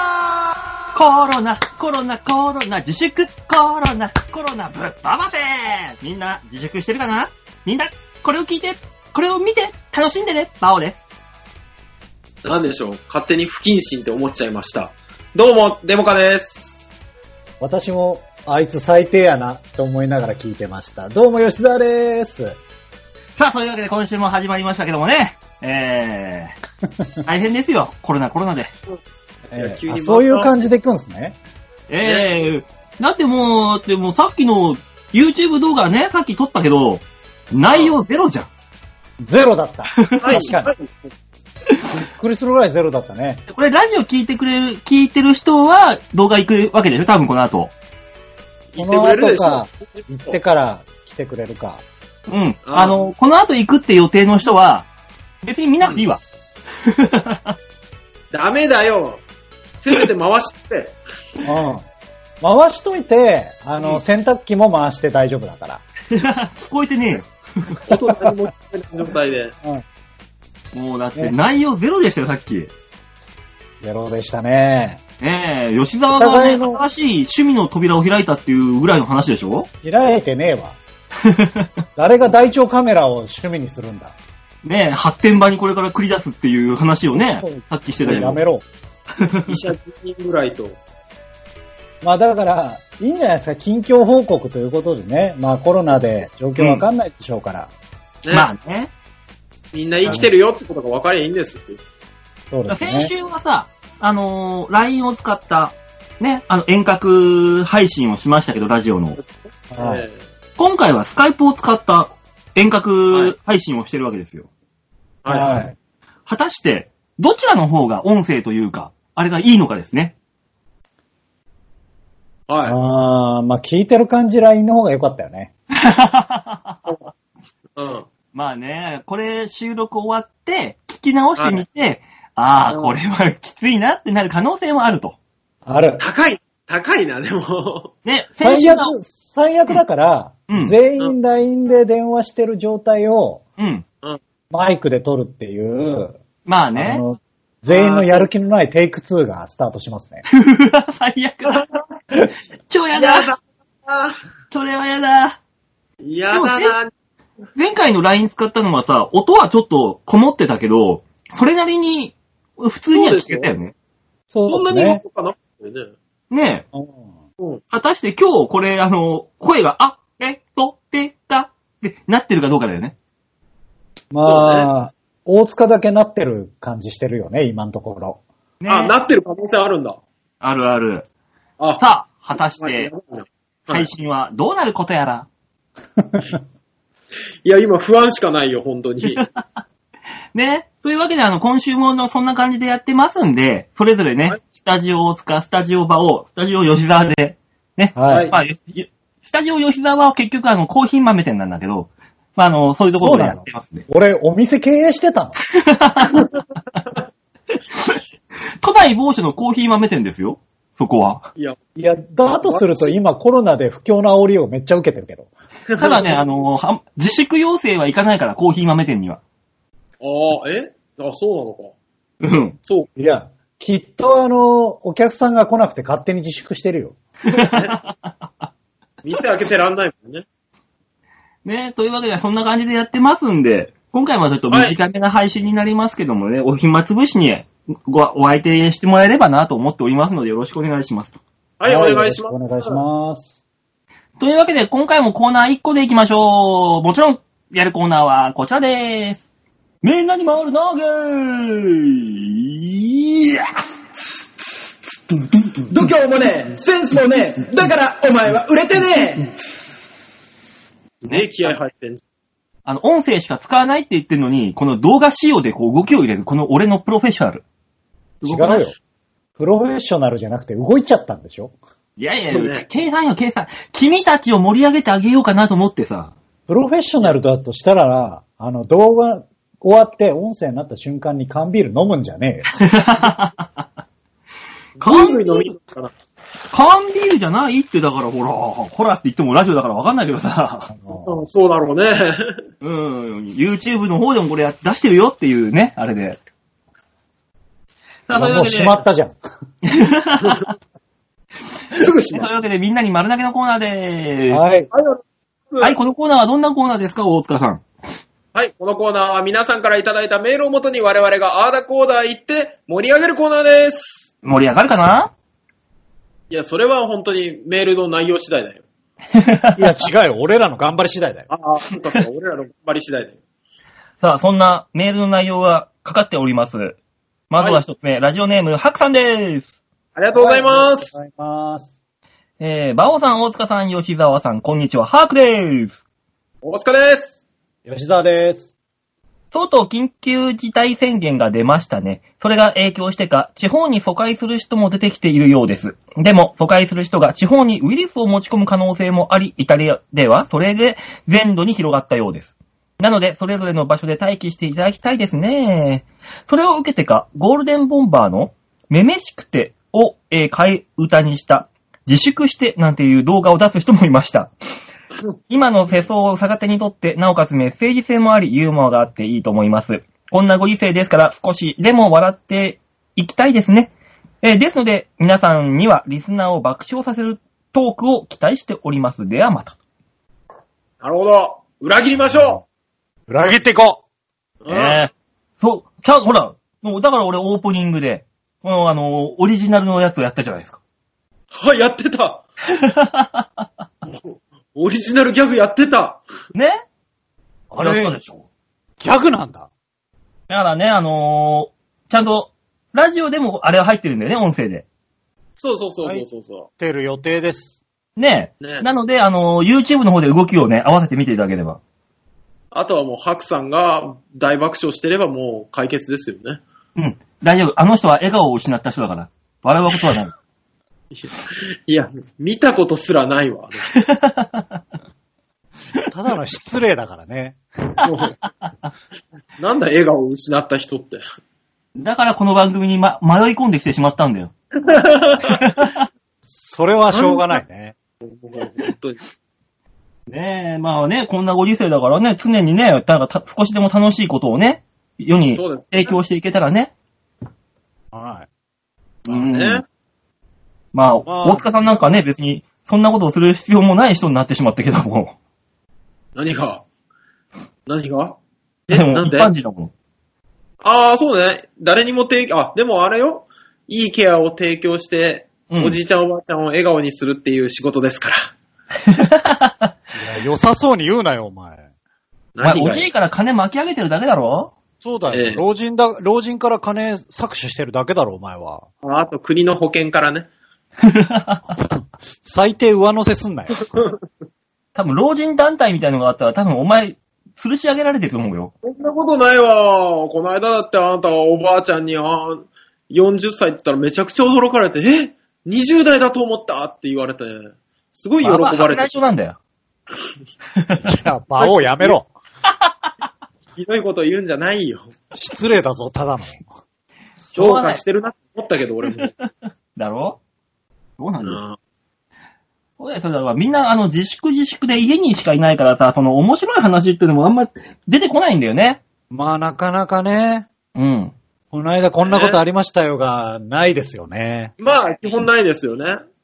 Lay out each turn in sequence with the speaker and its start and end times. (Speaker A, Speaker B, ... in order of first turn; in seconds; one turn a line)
Speaker A: 0.9-11.0
Speaker B: 12.4-16.9
Speaker C: 17.6-22.6
Speaker A: 23.4-26.6
Speaker A: 27.2-28.7
Speaker C: 29.5-31.4
Speaker B: 29.5-30.5
Speaker A: 31.9-38.5
Speaker B: 32.0-32.3
Speaker C: 39.2-40.7
Speaker A: 40.0-40.4
Speaker B: 40.2-41.1
Speaker C: 41.9-43.4
Speaker A: 43.5-47.7
Speaker B: 48.7-50.4
Speaker C: 48.8-51.8
Speaker A: 52.3-54.9
Speaker B: 52.6-53.0
Speaker A: 55.4-56.2
Speaker A: 56.8-57.5
Speaker B: 58.3-59.2
Speaker B: 59.8-61.0
Speaker C: 61.4-61.8
Speaker C: 62.4-65.8
Speaker A: 66.1-67.7
Speaker B: 67.9-69.5
Speaker C: 67.9-68.3
Speaker A: 70.7-72.7
Speaker C: 73.8-75.0
Speaker A: 75.2-79.7
Speaker C: 76.1-76.8
Speaker C: 79.8-80.8
Speaker A: 81.2-81.7
Speaker C: 82.0-84.2
Speaker A: 84.6-88.4
Speaker C: 87.4-88.7
Speaker A: 89.2-89.6
Speaker B: 89.4-90.8
Speaker C: 92.0-97.7
Speaker A: 96.6-96.8
Speaker A: 98.3-98.9
Speaker B: 99.7-101.8
Speaker C: 100.0-100.3
Speaker C: 102.5-103.1
Speaker A: 102.7-109.2
Speaker B: 109.2-110.2
Speaker C: 109.7-110.0
Speaker A: 110.6-114.5
Speaker B: 115.2-115.6
Speaker C: 115.3-115.7
Speaker A: 116.2-120.1
Speaker B: 122.5-122.8
Speaker C: 122.6-125.5
Speaker A: 125.7-126.9
Speaker B: 127.8-128.1
Speaker A: 128.3-135.2
Speaker B: 131.4-131.6
Speaker B: 132.7-132.9
Speaker C: 135.6-136.0
Speaker B: 136.0-137.9
Speaker A: 138.0-138.9
Speaker C: 138.4-143.4
Speaker A: 140.5-140.8
Speaker A: 143.6-143.8
Speaker C: 144.5-146.2
Speaker A: 146.4-147.0
Speaker C: 146.7-150.2
Speaker B: 147.7-148.3
Speaker A: 150.3-151.6
Speaker B: 151.5-151.8
Speaker A: 152.7-153.3
Speaker B: 152.9-154.2
Speaker A: 154.5-155.4
Speaker B: 156.0-156.9
Speaker A: 156.3-156.7
Speaker A: 157.6-163.7
Speaker B: 162.9-163.5
Speaker C: 164.3-165.0
Speaker B: 164.5-165.9
Speaker A: 166.3-166.6
Speaker C: 166.7-167.1
Speaker A: 167.7-172.9
Speaker C: 174.1-178.2
Speaker B: 174.2-174.7
Speaker A: 178.6-178.9
Speaker B: 178.7-180.0
Speaker A: 180.4-181.1
Speaker B: 181.6-181.8
Speaker A: 181.8-182.9
Speaker B: 182.6-183.9
Speaker A: 183.7-185.3
Speaker C: 186.0-186.4
Speaker B: 187.4-189.2
Speaker A: 189.1-189.6
Speaker A: 190.3-203.8
Speaker C: 197.9-198.3
Speaker B: 198.1-198.3
Speaker C: 202.9-205.4
Speaker A: 205.6-206.3
Speaker A: 207.7-208.0
Speaker A: 208.6-211.3
Speaker C: 211.8-215.3
Speaker B: 212.3-212.9
Speaker B: 215.7-216.2
Speaker A: 215.8-219.2
Speaker B: 220.0-221.7
Speaker A: 222.2-222.6
Speaker C: 223.0-226.9
Speaker A: 227.3-228.5
Speaker B: 227.3-227.8
Speaker B: 229.0-230.2
Speaker A: 231.4-241.2
Speaker B: 234.5-234.8
Speaker B: 241.6-242.8
Speaker C: 241.6-243.4
Speaker A: 244.2-249.2
Speaker A: 249.8-253.6
Speaker D: 255.7-259.3
Speaker B: 261.0-262.0
Speaker A: 261.0-261.6
Speaker A: 262.6-267.4
Speaker A: 268.2-268.7
Speaker C: 268.2-268.8
Speaker C: 269.4-271.5
Speaker A: 272.0-276.1
Speaker B: 272.3-272.6
Speaker C: 276.5-282.5
Speaker A: 282.6-283.6
Speaker B: 284.8-285.9
Speaker A: 284.8-285.5
Speaker A: 286.5-290.7
Speaker C: 290.7-291.2
Speaker B: 290.9-292.4
Speaker A: 292.6-296.2
Speaker A: 298.1-298.8
Speaker C: 298.1-299.2
Speaker A: 299.6-300.5
Speaker B: 301.7-302.3
Speaker A: 302.1-304.4
Speaker C: 304.3-304.7
Speaker B: 304.7-305.8
Speaker A: 305.6-307.6
Speaker B: 308.3-314.1
Speaker A: 314.2-315.1
Speaker B: 316.3-318.6
Speaker A: 319.1-319.7
Speaker C: 319.6-321.3
Speaker B: 321.3-323.2
Speaker A: 324.0-326.8
Speaker A: 327.3-329.5
Speaker B: 327.4-327.6
Speaker B: 329.9-330.9
Speaker C: 330.1-331.7
Speaker A: 332.4-335.8
Speaker B: 336.4-337.2
Speaker C: 337.6-338.5
Speaker A: 339.3-364.3
Speaker A: 365.3-379.6
Speaker B: 380.8-382.4
Speaker C: 382.1-382.4
Speaker C: 383.1-383.8
Speaker B: 384.4-384.8
Speaker A: 384.5-390.6
Speaker B: 391.3-392.2
Speaker A: 392.5-393.2
Speaker B: 393.9-396.0
Speaker A: 396.3-396.6
Speaker C: 397.5-398.0
Speaker A: 397.6-398.2
Speaker C: 398.8-399.5
Speaker A: 400.3-404.6
Speaker B: 405.4-406.5
Speaker C: 406.6-407.6
Speaker A: 408.0-411.6
Speaker B: 408.4-408.7
Speaker B: 412.5-416.4
Speaker A: 416.8-420.1
Speaker B: 420.9-423.6
Speaker A: 423.7-424.6
Speaker C: 425.9-427.7
Speaker B: 427.8-428.2
Speaker A: 428.4-428.7
Speaker B: 429.4-431.0
Speaker A: 431.8-434.3
Speaker B: 434.6-435.4
Speaker A: 435.3-435.8
Speaker C: 436.2-437.7
Speaker B: 436.9-437.3
Speaker B: 438.0-439.0
Speaker A: 440.1-446.7
Speaker B: 445.3-445.9
Speaker C: 447.9-448.3
Speaker A: 449.1-449.6
Speaker B: 449.1-449.6
Speaker A: 450.7-455.1
Speaker C: 451.1-451.5
Speaker B: 456.1-456.6
Speaker B: 457.7-459.3
Speaker A: 458.7-459.7
Speaker B: 460.6-468.3
Speaker A: 465.5-465.8
Speaker A: 468.9-469.7
Speaker C: 469.9-471.7
Speaker B: 472.4-472.9
Speaker A: 472.4-474.5
Speaker C: 474.8-478.7
Speaker B: 475.1-475.4
Speaker B: 478.8-480.3
Speaker A: 480.8-481.5
Speaker C: 481.6-483.8
Speaker A: 484.7-488.5
Speaker B: 488.6-499.0
Speaker A: 498.2-499.4
Speaker A: 500.6-500.8
Speaker C: 500.8-502.1
Speaker B: 501.4-501.9
Speaker B: 503.6-504.9
Speaker C: 505.1-506.5
Speaker A: 507.3-507.8
Speaker B: 507.4-509.1
Speaker A: 509.8-510.2
Speaker A: 511.0-511.4
Speaker B: 511.2-511.6
Speaker A: 512.8-518.8
Speaker C: 519.1-520.5
Speaker A: 520.7-521.1
Speaker C: 521.5-524.5
Speaker B: 522.0-522.4
Speaker B: 524.6-526.0